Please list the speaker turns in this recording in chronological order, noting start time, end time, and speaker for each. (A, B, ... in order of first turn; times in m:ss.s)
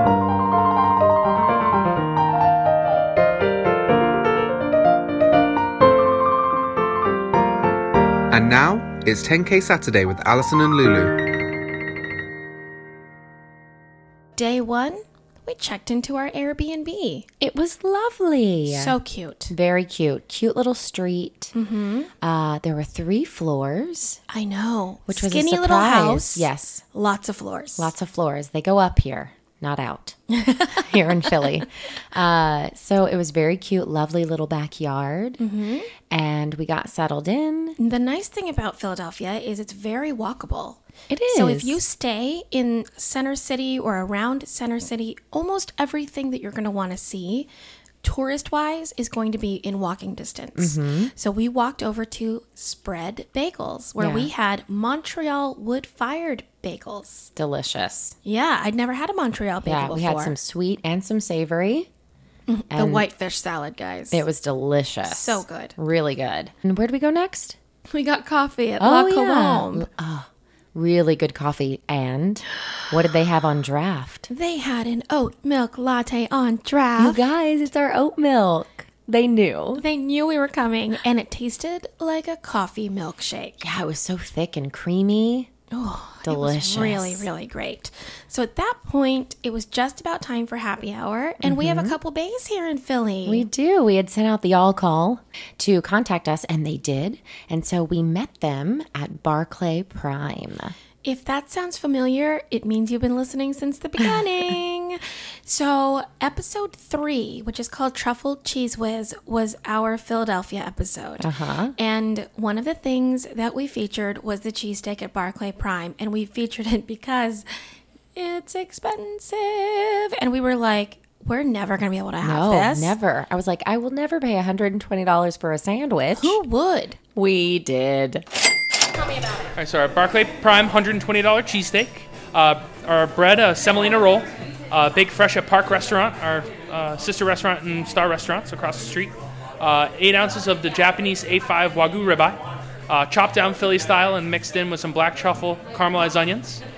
0:08.3-0:11.2 A
0:14.4-0:17.3 B
0:17.4-0:19.0 C
0:18.7-0:19.5 B
0:19.5-0:21.5 C
0:21.5-0:22.1 B
0:22.2-0:24.2 C
0:24.3-0:27.9 B
0:25.1-0:26.8 C
0:27.8-0:35.4 C
0:30.4-0:30.8 B
0:35.4-0:35.9 B
0:36.1-0:37.8 C
0:37.8-0:47.5 B
0:41.1-0:41.8 C
0:48.0-0:57.3 B
0:50.6-0:51.1 C
0:54.0-0:54.3 C
0:57.4-0:58.2 C
0:58.2-1:00.4 B
0:59.6-1:01.9 C
1:02.5-1:04.2 B
1:02.7-1:03.1 C
1:04.1-1:07.6 C
1:05.1-1:05.8 B
1:07.9-1:09.9 B
1:08.8-1:14.3 C
1:14.3-1:17.2 B
1:17.0-1:19.8 C
1:19.8-1:23.6 B
1:23.6-1:25.5 C
1:25.7-1:33.5 B
1:26.2-1:27.3 C
1:31.4-1:32.0 C
1:33.3-1:40.7 C
1:41.0-1:57.4 B
1:51.2-1:51.8 C
1:58.2-2:03.0 B
2:02.2-2:06.4 C
2:06.2-2:07.0 B
2:07.2-2:08.3 C
2:09.1-2:09.5 B
2:09.6-2:26.6 D